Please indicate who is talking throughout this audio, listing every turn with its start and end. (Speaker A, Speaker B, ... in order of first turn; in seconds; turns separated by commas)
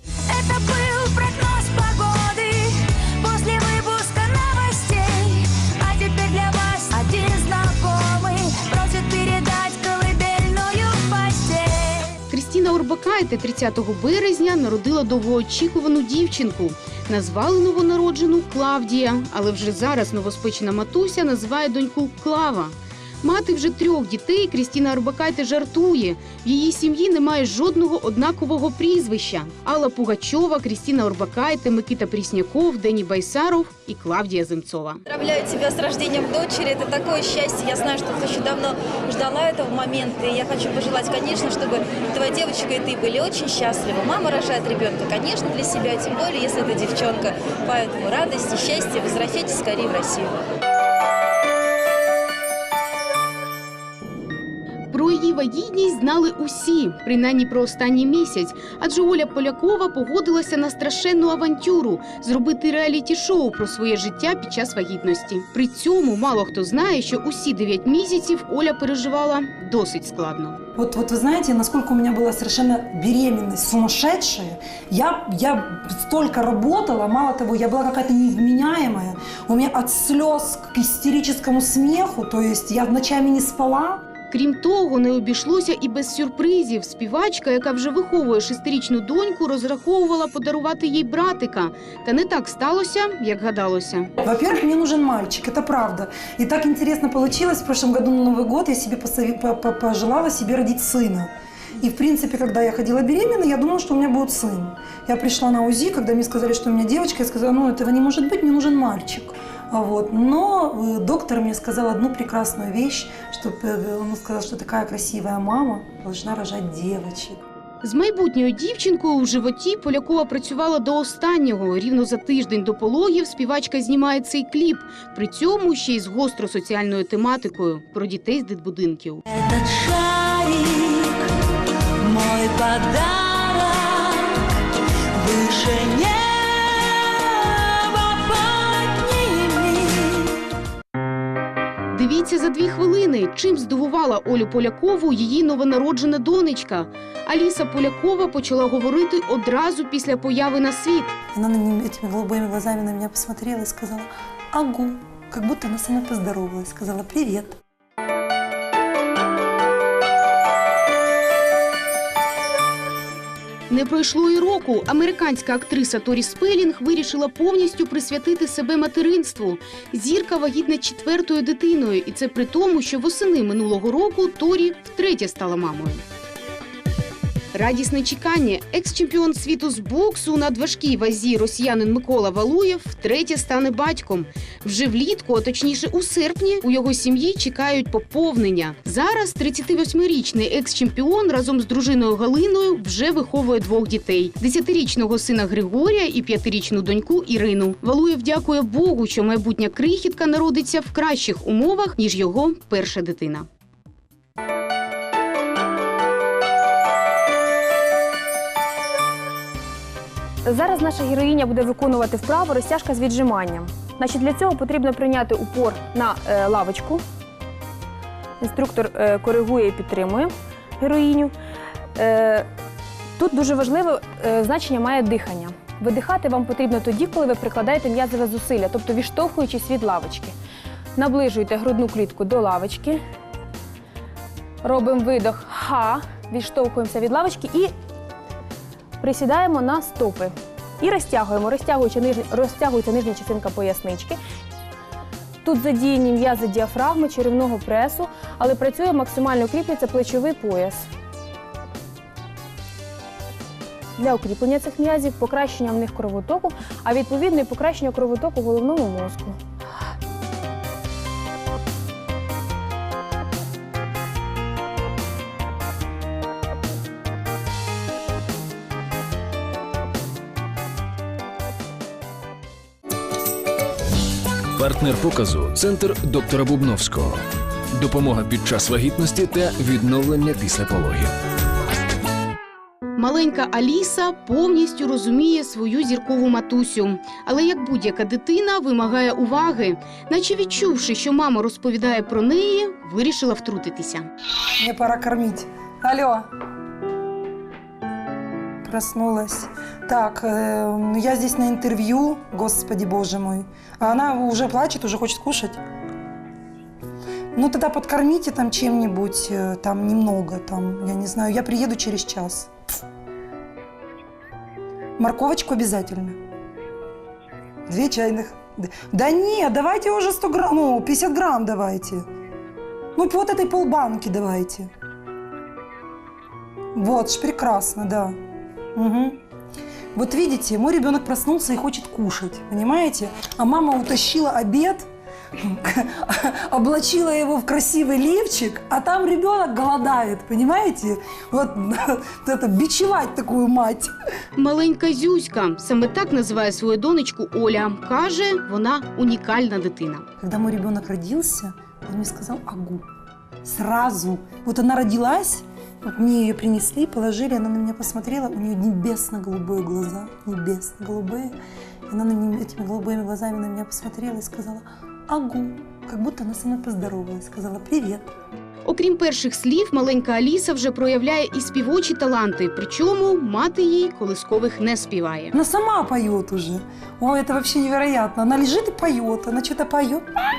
Speaker A: 0.3-12.2, Speaker B: 12.3-35.0, Speaker C: 35.1-50.4, Speaker B: 54.9-70.6, Speaker D: 70.8-84.0, Speaker B: 84.3-94.1, Speaker D: 94.2-117.4, Speaker B: 117.8-129.2, Speaker A: 129.3-131.3, Speaker A: 132.0-134.6, Speaker A: 135.2-140.4, Speaker B: 141.9-151.1, Speaker D: 151.3-157.6, Speaker B: 163.7-176.0, Speaker B: 177.5-203.5, Speaker E: 210.4-217.0, Speaker E: 218.4-221.3, Speaker E: 221.9-222.5, Speaker E: 223.2-230.3, Speaker E: 231.0-233.0, Speaker E: 234.6-237.7, Speaker E: 239.0-244.2, Speaker E: 245.4-250.8, Speaker E: 254.0-259.4, Speaker F: 274.5-281.1, Speaker B: 282.9-294.1, Speaker D: 294.6-296.3, Speaker D: 298.6-305.6, Speaker D: 307.3-312.5, Speaker D: 315.0-316.2, Speaker D: 317.7-322.1, Speaker D: 322.9-324.7, Speaker D: 326.8-328.2, Speaker D: 328.8-329.2, Speaker D: 329.9-334.9, Speaker D: 335.4-343.9, Speaker B: 344.4-350.1, Speaker D: 350.2-352.8, Speaker D: 353.4-361.3, Speaker D: 361.9-368.1, Speaker B: 368.6-375.3, Speaker D: 375.3-380.1